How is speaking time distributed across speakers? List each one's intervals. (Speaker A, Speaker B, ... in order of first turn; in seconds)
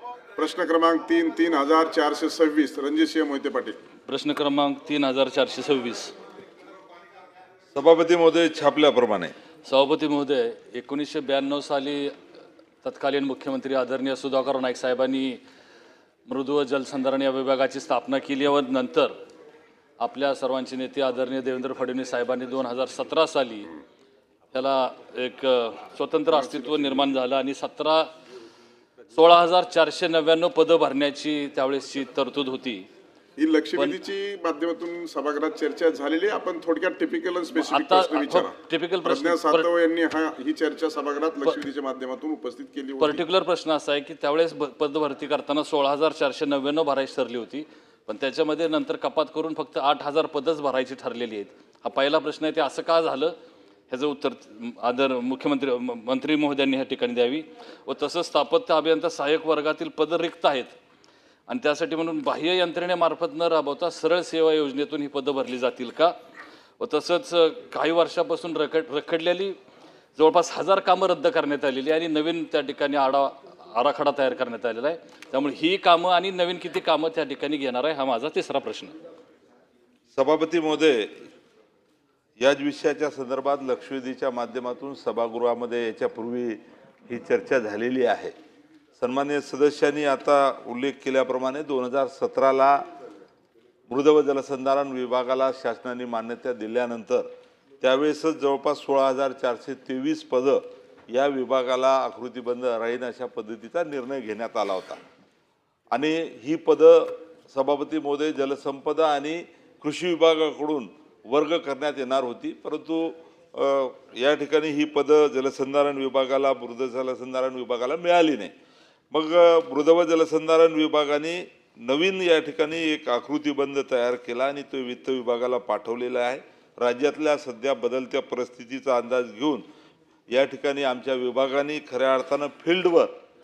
Speaker A: 0.4-3.8, 26.4-26.8, 33.4-43.2
Speaker B: 4.1-6.2, 9.7-12.1, 12.8-15.4, 16.3-19.1, 20.0-23.7, 24.5-28.1, 29.1-32.9, 37.5-39.7, 43.0-53.4, 53.9-60.7, 61.5-66.2, 66.8-69.6, 70.2-79.0
Speaker C: 7.7-9.3, 80.1-81.3, 82.4-88.3, 89.0-92.8, 93.9-97.3, 97.8-105.0, 105.9-118.5, 119.1-129.7, 130.3-133.1